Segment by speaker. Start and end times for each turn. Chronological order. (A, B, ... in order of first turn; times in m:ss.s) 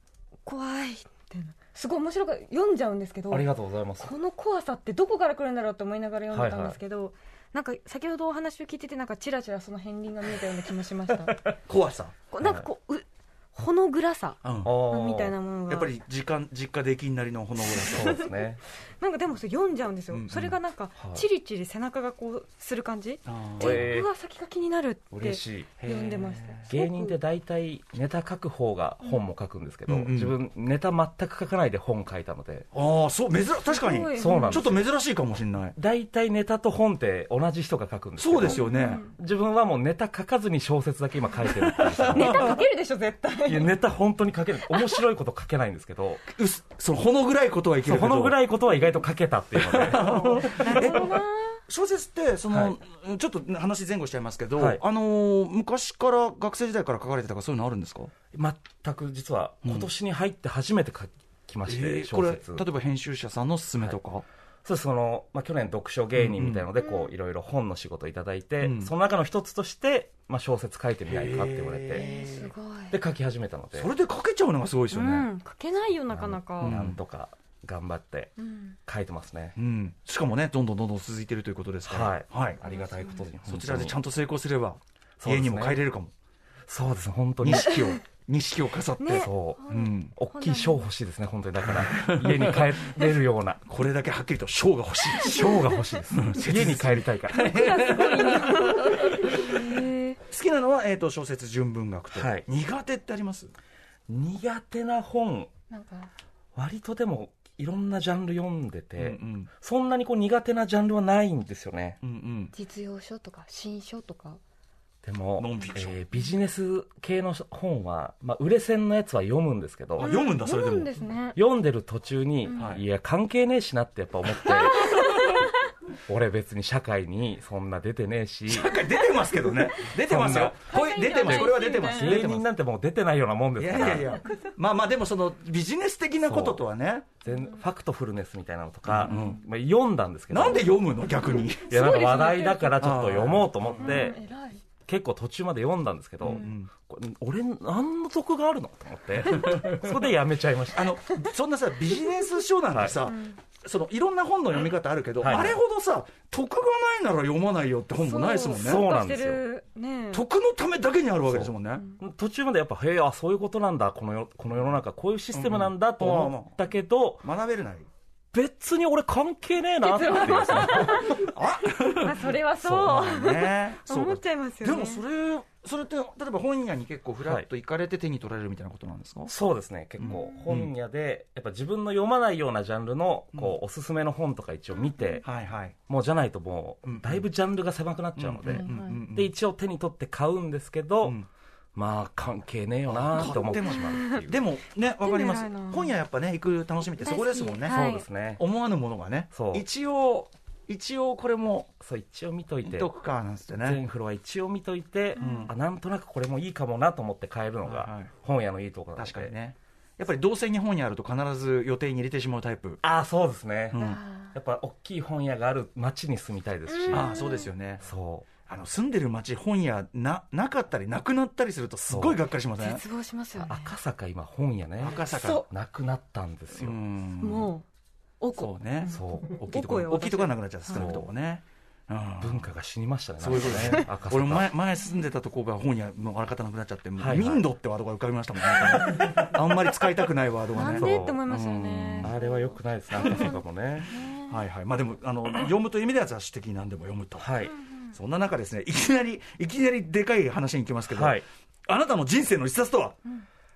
0:00.4-0:03.5 A
0:03.3-0:04.1 B
0:04.0-0:11.4 A
0:06.3-0:06.8 B
0:11.7-0:12.2 C
0:12.3-0:14.4 A
0:12.4-0:12.7 B
0:14.4-0:14.8 C
0:14.6-0:15.4 B
0:14.9-0:15.9 A
0:15.7-0:18.2 C
0:17.8-0:18.3 A
0:17.8-0:18.6 B
0:19.0-0:27.2 A
0:20.1-0:20.6 C
0:21.0-0:21.2 B
0:23.3-0:23.9 C
0:23.6-0:24.1 B
0:25.1-0:25.7 B
0:25.8-0:26.7 C
0:26.7-0:32.7 B
0:29.9-0:30.4 C
0:32.7-0:35.8 C
0:33.7-0:34.7 A
0:34.2-0:34.8 B
0:35.8-0:42.6 B
0:38.2-0:39.0 C
0:38.5-0:39.1 A
0:41.4-0:42.5 C
0:42.1-0:43.7 A
0:43.4-0:46.2 B
0:44.7-0:45.0 A
0:46.3-0:48.4 C
0:47.8-0:51.1 B
0:49.6-0:58.1 C
0:50.0-0:51.6 A
0:52.5-0:52.8 B
0:54.6-0:54.8 B
0:58.3-1:02.6 B
0:59.6-0:59.9 C
1:01.7-1:04.2 C
1:04.6-1:12.1 B
1:06.2-1:06.7 C
1:06.8-1:07.1 A
1:08.6-1:08.9 C
1:11.1-1:12.5 C
1:12.0-1:13.0 A
1:12.9-1:13.9 B
1:13.8-1:15.3 C
1:14.9-1:16.8 A
1:16.1-1:18.3 B
1:16.6-1:17.0 C
1:18.4-1:18.8 A
1:18.9-1:19.6 B
1:19.6-1:22.6 C
1:21.9-1:24.0 B
1:22.6-1:23.2 A
1:23.4-1:26.1 C
1:25.2-1:25.8 B
1:26.7-1:27.8 B
1:27.4-1:30.1 C
1:29.0-1:30.8 A
1:29.2-1:33.6 B
1:31.6-1:32.8 C
1:33.7-1:39.7 C
1:35.2-1:35.8 A
1:35.4-1:37.8 B
1:37.3-1:40.2 A
1:40.3-1:43.5 C
1:42.1-1:42.4 B
1:44.1-1:45.5 B
1:45.7-1:46.1 A
1:46.6-1:52.0 B
1:49.0-1:49.5 C
1:52.0-1:52.5 C
1:52.5-1:54.4 A
1:55.0-2:00.1 B
1:55.4-1:56.0 C
2:00.0-2:00.9 C
2:00.0-2:01.4 A
2:01.4-2:05.1 B
2:02.5-2:02.7 A
2:02.5-2:02.8 C
2:04.5-2:05.5 A
2:06.1-2:08.8 B
2:08.5-2:12.5 C
2:10.0-2:10.6 B
2:10.7-2:12.2 A
2:11.2-2:14.2 B
2:13.6-2:17.1 C
2:16.2-2:16.6 B
2:17.2-2:20.8 B
2:18.8-2:19.4 C
2:19.1-2:19.4 A
2:20.3-2:21.8 C
2:21.7-2:24.2 B
2:21.7-2:22.8 A
2:22.8-2:24.0 C
2:23.8-2:24.6 A
2:24.9-2:31.0 B
2:26.2-2:26.7 C
2:29.3-2:29.8 C
2:30.7-2:38.8 C
2:32.7-2:33.0 B
2:33.1-2:33.4 A
2:35.2-2:35.6 B
2:38.0-2:40.2 A
2:38.5-2:39.4 B
2:40.1-2:41.9 C
2:41.3-2:47.3 B
2:45.3-2:46.6 C
2:47.2-2:47.9 C
2:48.3-2:51.2 B
2:49.8-2:55.0 A
2:50.6-2:59.3 C
2:52.6-2:53.2 B
2:59.3-3:05.2 B
3:00.0-3:00.7 C
3:05.2-3:05.8 C
3:05.9-3:11.2 B
3:06.8-3:07.2 C
3:08.2-3:09.3 C
3:08.5-3:09.0 A
3:11.8-3:14.4 B
3:12.9-3:21.7 C
3:13.9-3:14.2 A
3:15.0-3:15.9 A
3:17.0-3:18.0 A
3:17.7-3:18.4 B
3:19.3-3:19.6 B
3:21.8-3:22.9 B
3:22.6-3:23.8 C
3:23.6-3:29.4 B
3:25.2-3:25.5 A
3:25.2-3:25.5 C
3:27.6-3:28.1 C
3:29.0-3:32.8 C
3:32.8-3:37.2 B
3:33.7-3:34.0 C
3:33.8-3:34.3 A
3:36.7-3:37.5 A
3:36.9-3:37.8 C
3:37.8-3:38.3 B
3:38.5-3:42.8 C
3:41.9-3:42.2 B
3:42.6-3:43.7 A
3:43.4-3:46.8 B
3:44.8-3:45.4 C
3:45.1-3:45.4 A
3:46.5-3:47.5 C
3:47.2-3:47.6 A
3:48.2-3:51.0 A
3:48.4-3:52.5 C
3:48.9-3:49.4 B
3:50.7-3:51.1 B
3:52.2-3:54.5 B
3:53.2-4:02.2 C
3:57.0-3:57.4 B
4:00.5-4:02.3 A
4:00.6-4:01.2 B
4:02.0-4:03.9 B
4:03.0-4:03.4 A
4:03.9-4:04.4 A
4:04.2-4:07.3 C
4:07.2-4:07.5 B
4:07.5-4:07.9 A
4:07.9-4:13.0 C
4:10.9-4:11.3 B